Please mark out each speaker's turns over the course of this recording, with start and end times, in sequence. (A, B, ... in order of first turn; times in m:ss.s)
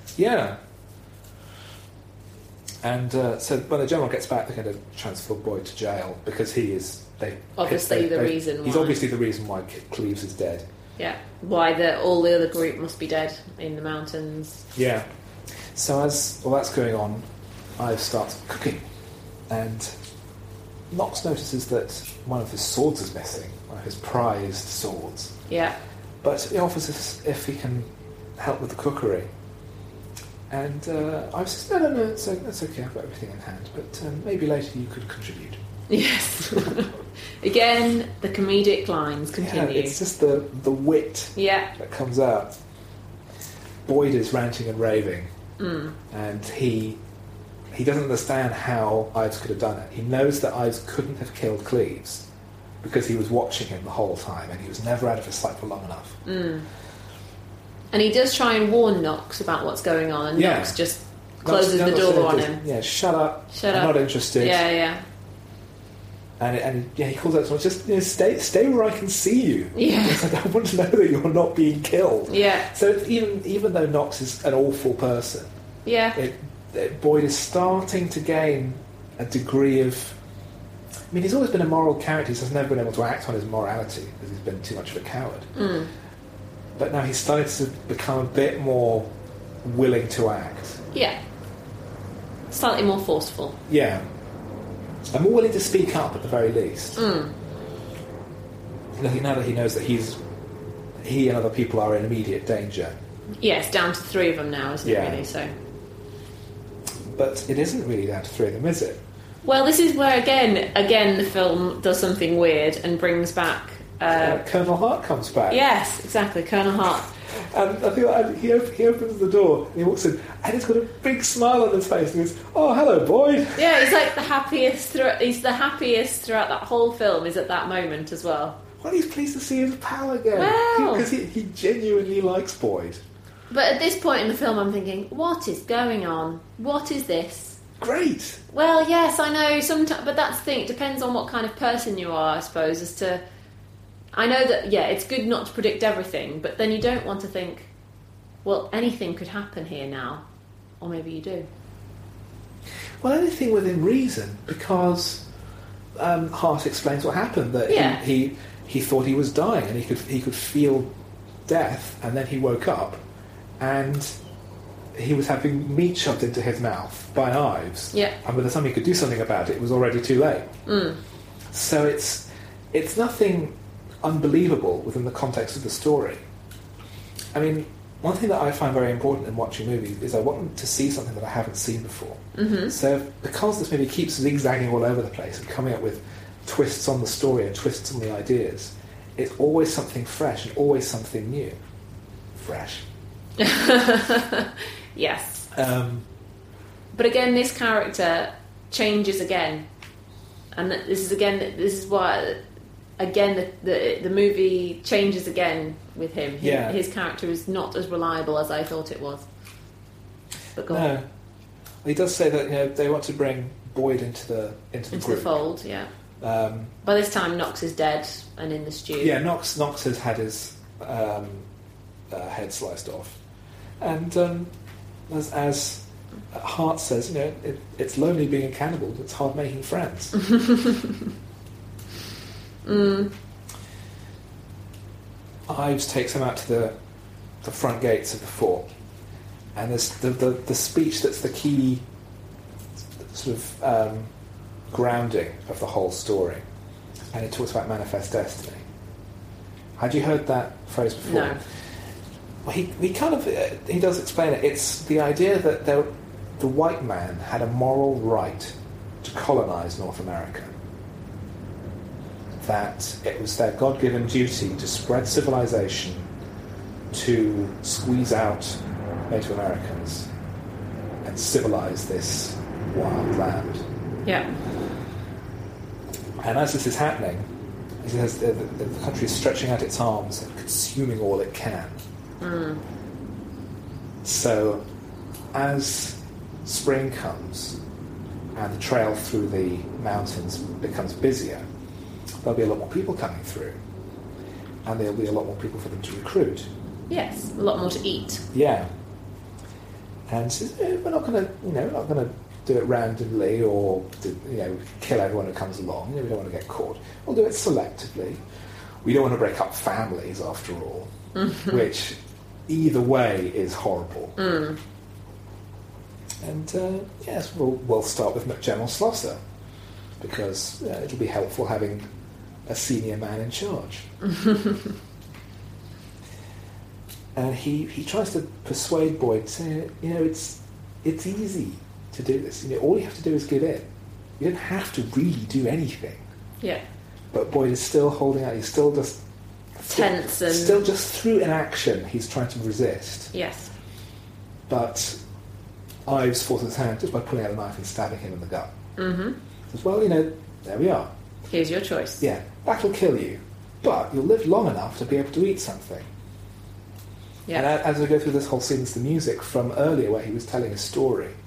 0:00.2-0:00.6 A
0:02.8-0:10.7 A
0:07.6-0:09.0 B
0:11.0-0:14.6 B
0:14.7-0:15.1 A
0:15.7-0:17.2 A
0:17.8-0:18.8 A
0:19.5-0:19.9 A
0:20.9-0:25.4 A
0:25.5-0:25.8 B
0:26.2-0:29.3 A
0:30.5-0:35.6 A
0:35.9-0:40.0 B
0:39.4-0:42.6 A
0:41.3-0:41.7 B
0:43.8-0:45.3 A
0:45.6-0:46.0 B
0:46.1-0:47.0 A
0:47.7-0:52.3 A
0:52.8-0:56.2 A
0:56.3-0:56.7 B
0:57.9-1:02.6 B
1:00.3-1:00.8 A
1:01.4-1:04.6 A
1:03.5-1:05.0 B
1:06.4-1:15.5 A
1:09.7-1:10.3 B
1:12.3-1:12.7 B
1:15.8-1:16.2 B
1:16.1-1:20.2 A
1:21.1-1:25.5 A
1:25.6-1:25.9 B
1:26.8-1:29.1 A
1:29.6-1:30.8 A
1:32.5-1:33.6 B
1:33.7-1:34.0 A
1:35.1-1:37.0 A
1:37.0-1:37.3 B
1:39.0-1:40.2 A
1:41.0-1:43.0 A
1:43.4-1:45.5 B
1:44.8-1:45.3 A
1:47.1-1:49.0 A
1:49.4-1:54.4 B
1:54.2-1:55.6 A
1:55.5-1:57.1 B
1:57.3-2:03.9 A
2:03.6-2:08.6 B
2:08.8-2:13.0 A
2:10.3-2:11.1 B
2:13.5-2:17.6 B
2:17.8-2:18.4 A
2:18.5-2:23.2 B
2:24.1-2:27.7 B
2:28.4-2:30.2 B
2:30.8-2:31.5 B
2:33.0-2:35.2 A
2:36.0-2:40.9 A
2:37.7-2:38.0 B
2:41.4-2:43.0 A
2:43.6-2:44.1 A
2:44.9-2:50.5 A
2:50.7-2:51.0 B
2:51.5-2:56.2 A
2:57.3-3:11.6 A
3:02.4-3:02.7 B
3:12.3-3:12.9 A
3:13.4-3:15.5 B
3:15.5-3:16.1 A
3:16.9-3:19.7 B
3:20.5-3:22.4 B
3:23.0-3:29.2 B
3:26.4-3:26.8 A
3:30.6-3:30.9 B
3:30.7-3:31.0 A
3:31.8-3:35.4 A
3:34.9-3:35.9 B
3:36.2-3:36.7 A
3:36.8-3:39.1 B
3:39.0-3:41.5 A
3:42.1-3:43.2 A
3:43.8-3:44.5 A
3:45.1-3:50.1 A
3:50.3-3:50.9 B
3:52.6-3:53.1 B
3:55.5-3:56.8 A
3:57.4-3:58.7 A
3:59.6-4:01.8 A
4:03.1-4:04.1 A
4:04.7-4:06.4 A
4:07.1-4:08.6 A
4:09.8-4:11.4 A
4:11.0-4:11.4 B
4:12.4-4:20.6 A
4:22.4-4:26.1 A
4:26.9-4:30.1 A
4:31.0-4:33.6 A
4:34.0-4:34.3 B
4:36.2-4:37.3 A
4:37.8-4:41.8 A
4:42.2-4:42.6 B
4:44.0-4:44.6 A
4:45.3-4:47.6 A
4:48.3-4:51.4 A
4:52.2-4:53.6 A
4:54.6-4:56.5 A
4:56.9-4:58.2 B
4:58.3-4:58.7 A
5:00.1-5:08.2 A
5:08.8-5:10.9 A
5:11.1-5:11.6 B
5:11.4-5:14.2 A
5:14.2-5:14.6 B
5:16.2-5:19.2 A
5:20.0-5:21.9 A
5:22.5-5:23.9 A
5:24.1-5:24.6 B
5:27.1-5:33.7 A
5:34.2-5:36.0 A
5:37.1-5:39.0 A
5:39.6-5:43.1 A
5:39.7-5:40.6 B
5:43.1-5:43.5 B
5:44.5-5:45.0 A
5:45.9-5:48.5 A
5:48.8-5:49.2 B
5:49.5-5:50.9 A
5:51.3-5:52.0 B
5:52.0-5:55.9 A
5:57.3-6:01.2 A